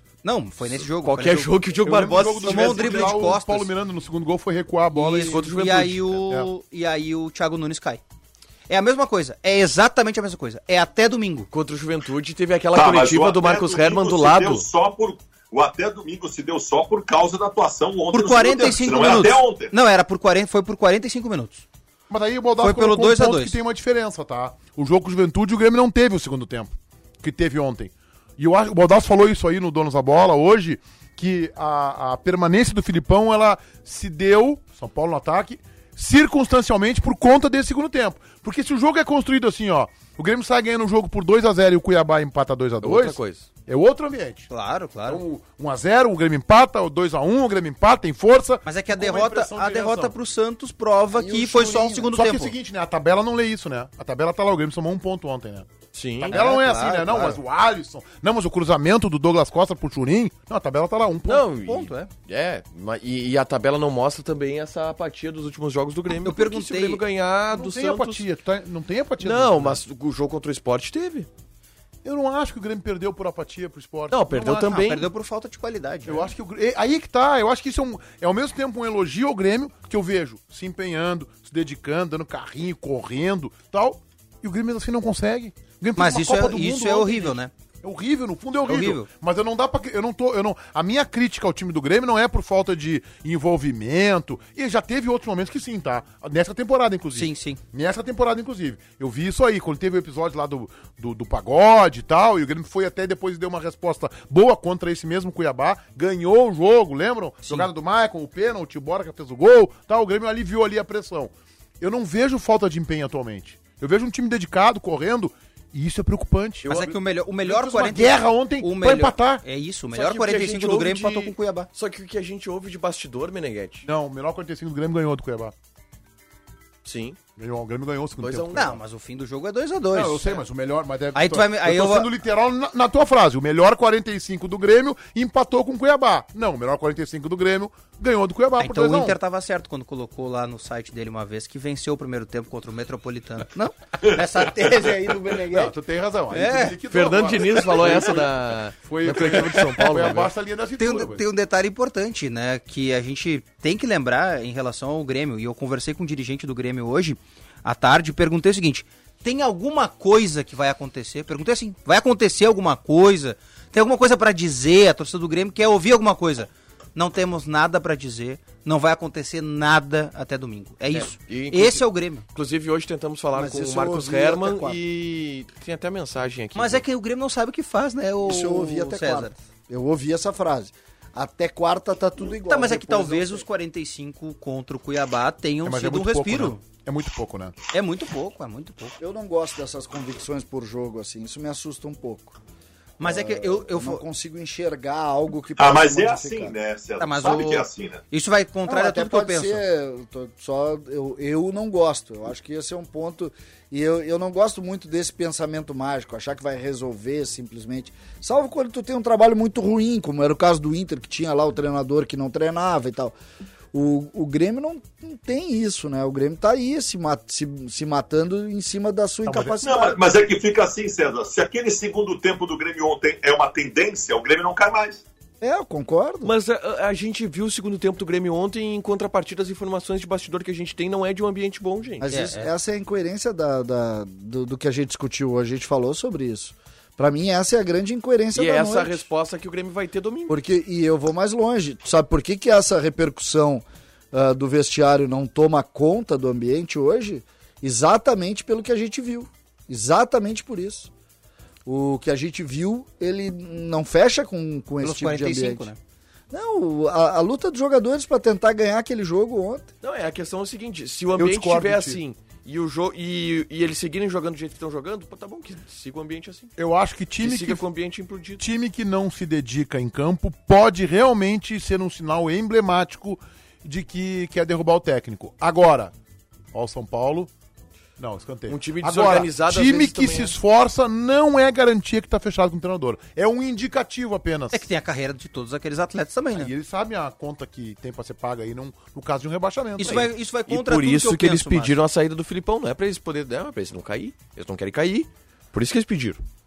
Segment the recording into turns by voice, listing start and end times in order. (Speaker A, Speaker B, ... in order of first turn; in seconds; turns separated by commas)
Speaker A: 0.2-1.6, Speaker B: 0.7-3.2, Speaker C: 1.8-5.5, Speaker A: 2.1-3.7, Speaker A: 4.9-8.0, Speaker B: 5.3-6.2, Speaker A: 8.7-11.5, Speaker B: 11.5-14.7, Speaker D: 12.8-19.7, Speaker A: 18.1-21.6, Speaker C: 22.1-44.5, Speaker A: 22.6-23.6, Speaker B: 42.8-43.5, Speaker A: 44.5-45.2, Speaker C: 45.1-50.1, Speaker A: 48.6-52.5, Speaker E: 51.1-52.1, Speaker C: 52.1-61.5, Speaker B: 55.9-56.4, Speaker A: 56.3-57.4, Speaker B: 61.3-68.2, Speaker A: 61.7-62.1, Speaker A: 66.2-67.0, Speaker C: 67.5-69.8, Speaker B: 69.2-71.3, Speaker C: 72.0-74.8, Speaker B: 74.1-75.1, Speaker A: 74.5-76.3, Speaker C: 76.1-116.7, Speaker A: 86.0-87.5, Speaker A: 88.7-89.1, Speaker A: 97.1-97.6, Speaker A: 107.4-107.7, Speaker B: 116.6-117.0, Speaker A: 116.7-121.7, Speaker C: 117.4-119.4, Speaker B: 119.9-123.9, Speaker C: 123.8-125.5, Speaker B: 126.8-127.2, Speaker C: 127.4-128.8, Speaker B: 128.2-128.8, Speaker A: 128.5-130.4, Speaker C: 129.9-139.2, Speaker A: 131.2-132.1, Speaker A: 138.6-145.7, Speaker C: 145.5-151.2, Speaker A: 146.3-146.8, Speaker B: 146.9-150.3, Speaker A: 150.8-172.3, Speaker B: 170.9-176.8, Speaker E: 173.3-174.8, Speaker A: 176.6-179.3, Speaker E: 178.2-183.5, Speaker A: 182.5-186.6, Speaker C: 185.6-187.6, Speaker A: 187.7-189.0, Speaker E: 189.0-192.4, Speaker A: 193.0-194.0, Speaker E: 193.0-196.6, Speaker D: 195.6-198.0, Speaker A: 197.0-199.6, Speaker E: 198.7-213.2, Speaker E: 213.7-220.0, Speaker C: 219.2-219.9, Speaker D: 219.6-225.0, Speaker E: 225.4-226.3, Speaker B: 226.2-232.1, Speaker E: 232.0-239.1, Speaker A: 232.1-232.5, Speaker B: 238.3-240.4, Speaker E: 240.3-250.9, Speaker E: 251.7-255.7, Speaker A: 254.8-255.8, Speaker E: 256.3-259.7, Speaker B: 259.8-266.5, Speaker C: 261.1-262.0, Speaker C: 266.6-267.6, Speaker B: 267.2-268.4, Speaker C: 268.4-275.9, Speaker C: 276.5-277.3, Speaker C: 278.0-284.7, Speaker B: 278.5-280.4, Speaker A: 284.5-286.5, Speaker C: 286.3-290.1, Speaker A: 289.8-291.8, Speaker B: 289.9-296.2